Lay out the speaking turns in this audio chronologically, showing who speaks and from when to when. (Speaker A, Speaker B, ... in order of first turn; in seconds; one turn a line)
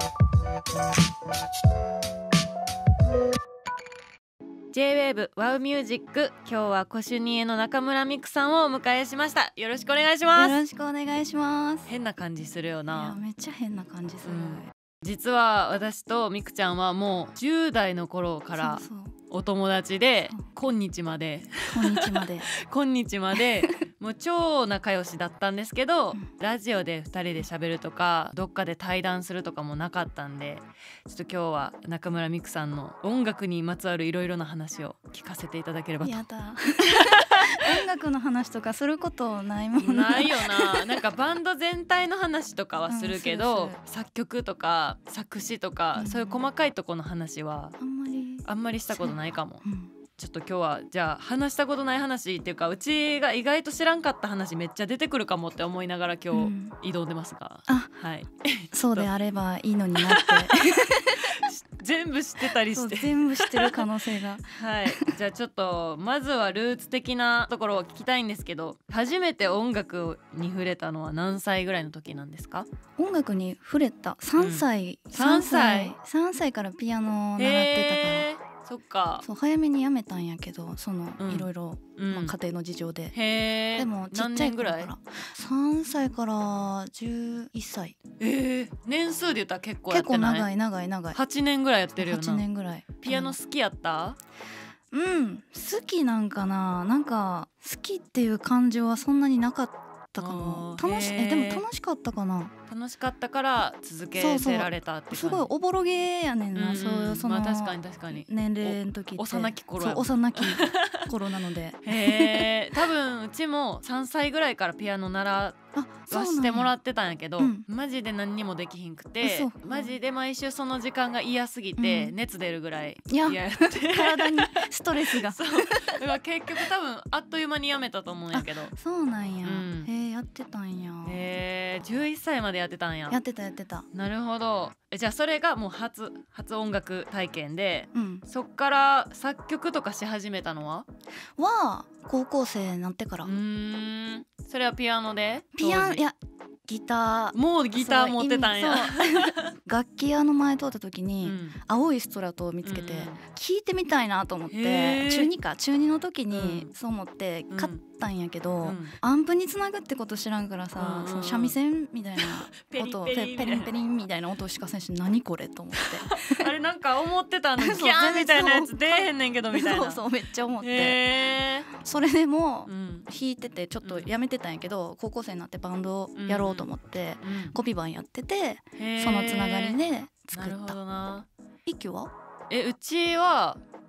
Speaker A: 4.7-10.6
Speaker B: 10.3-11.9
Speaker A: 11.9-13.2
Speaker B: 12.9-14.7
Speaker A: 14.2-36.2
Speaker B: 18.6-19.1
Speaker B: 21.7-22.5
Speaker B: 36.0-41.0
Speaker A: 36.9-37.6
Speaker A: 39.8-47.8
Speaker B: 42.9-43.8
Speaker B: 46.0-46.4
Speaker B: 47.8-49.9
Speaker A: 48.4-49.6
Speaker A: 50.1-59.1
Speaker B: 56.3-56.7
Speaker B: 58.7-61.4
Speaker A: 60.0-60.6
Speaker A: 61.1-63.9
Speaker B: 62.5-65.1
Speaker A: 64.5-72.7
Speaker B: 73.0-78.3
Speaker A: 74.4-75.9
Speaker A: 77.4-79.2
Speaker B: 79.2-83.1
Speaker A: 81.2-82.3
Speaker A: 83.1-84.9
Speaker B: 83.8-88.0
Speaker A: 88.2-90.5
Speaker B: 89.9-91.2
Speaker A: 91.1-92.4
Speaker B: 92.0-93.3
Speaker A: 93.0-94.2
Speaker B: 94.9-102.5
Speaker A: 100.2-101.6
Speaker A: 102.7-105.5
Speaker B: 104.2-112.5
Speaker A: 106.5-111.1
Speaker A: 111.8-128.7
Speaker B: 115.7-116.7
Speaker B: 117.4-117.6
Speaker B: 119.2-119.9
Speaker B: 121.8-122.1
Speaker B: 123.1-126.0
Speaker B: 128.3-131.2
Speaker A: 129.4-129.9
Speaker A: 131.0-133.2
Speaker B: 133.1-133.9
Speaker A: 133.9-140.9
Speaker B: 137.9-138.2
Speaker B: 141.4-143.3
Speaker A: 143.2-146.0
Speaker B: 145.6-166.5
Speaker A: 147.3-149.5
Speaker A: 151.2-151.6
Speaker A: 152.6-153.2
Speaker A: 154.5-155.3
Speaker A: 156.3-156.7
Speaker A: 157.5-157.8
Speaker A: 158.6-158.9
Speaker A: 160.8-161.6
Speaker A: 162.2-163.7
Speaker A: 165.7-170.0
Speaker B: 167.6-171.0
Speaker A: 170.6-171.7
Speaker B: 171.7-180.8
Speaker A: 172.7-173.1
Speaker A: 173.8-174.1
Speaker A: 176.1-176.7
Speaker A: 177.2-177.6
Speaker A: 178.8-179.8
Speaker A: 180.3-181.3
Speaker B: 181.7-182.1
Speaker A: 182.5-183.6